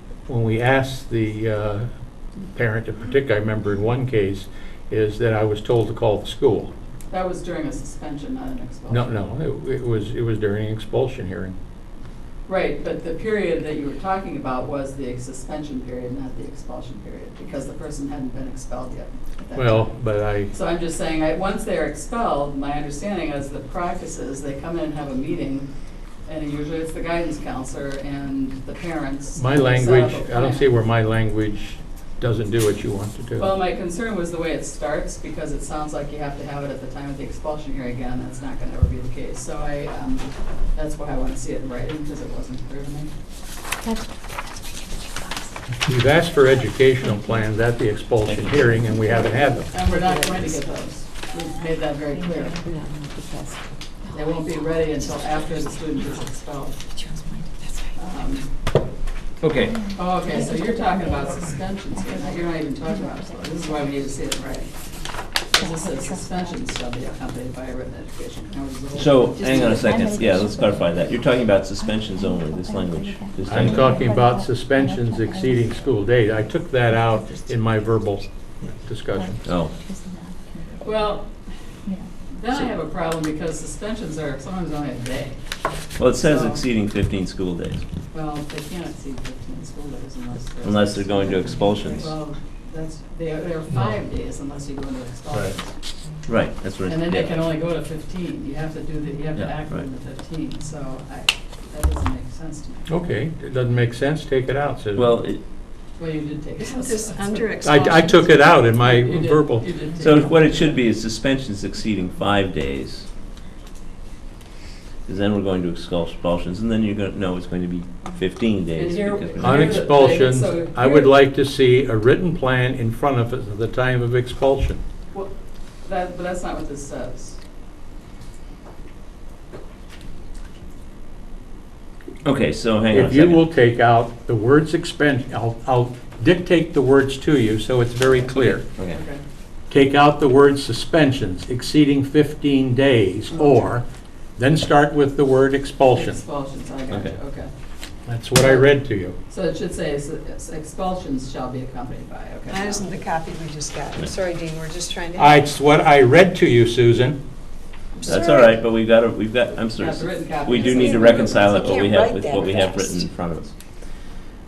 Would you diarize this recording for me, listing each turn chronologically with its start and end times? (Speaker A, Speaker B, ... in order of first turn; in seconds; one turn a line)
Speaker A: 0.3-1.9
Speaker A: 2.4-6.7
Speaker B: 7.1-9.2
Speaker A: 8.9-11.6
Speaker B: 12.5-25.7
Speaker A: 19.5-20.5
Speaker B: 26.2-30.7
Speaker A: 29.4-33.5
Speaker B: 33.4-43.1
Speaker C: 43.8-47.5
Speaker A: 45.8-49.7
Speaker D: 48.2-49.0
Speaker E: 49.1-50.6
Speaker B: 49.7-52.6
Speaker C: 51.4-52.7
Speaker E: 52.6-53.6
Speaker C: 54.0-55.9
Speaker B: 54.1-56.8
Speaker E: 56.9-58.4
Speaker B: 58.0-58.5
Speaker D: 59.4-59.8
Speaker C: 59.5-64.2
Speaker B: 59.9-64.7
Speaker C: 65.5-66.9
Speaker B: 65.5-70.1
Speaker D: 68.9-74.1
Speaker E: 69.4-69.8
Speaker C: 69.8-78.0
Speaker A: 73.5-78.2
Speaker A: 78.8-79.4
Speaker C: 79.1-81.1
Speaker D: 79.4-79.7
Speaker B: 80.8-81.4
Speaker C: 81.8-82.1
Speaker B: 82.3-85.4
Speaker D: 86.0-87.8
Speaker B: 86.2-86.6
Speaker B: 88.1-95.6
Speaker D: 90.6-92.2
Speaker D: 96.2-97.4
Speaker B: 96.8-102.9
Speaker D: 99.3-99.9
Speaker A: 102.9-105.1
Speaker D: 104.9-105.4
Speaker B: 106.0-107.9
Speaker E: 106.6-108.4
Speaker A: 107.6-109.8
Speaker B: 108.5-110.8
Speaker D: 110.0-113.1
Speaker D: 115.0-119.8
Speaker B: 118.7-121.1
Speaker A: 119.4-124.8
Speaker B: 125.8-127.4
Speaker D: 132.2-133.5
Speaker A: 132.9-138.6
Speaker D: 138.3-139.0
Speaker B: 138.9-139.2
Speaker A: 139.7-143.8
Speaker A: 144.4-146.2
Speaker B: 145.9-147.5
Speaker D: 146.9-147.2
Speaker A: 148.1-149.2
Speaker B: 148.4-148.7
Speaker B: 149.3-153.0
Speaker E: 152.5-155.4
Speaker A: 155.2-157.2
Speaker E: 158.0-158.6
Speaker D: 158.0-163.6
Speaker B: 159.8-161.9
Speaker E: 160.6-163.1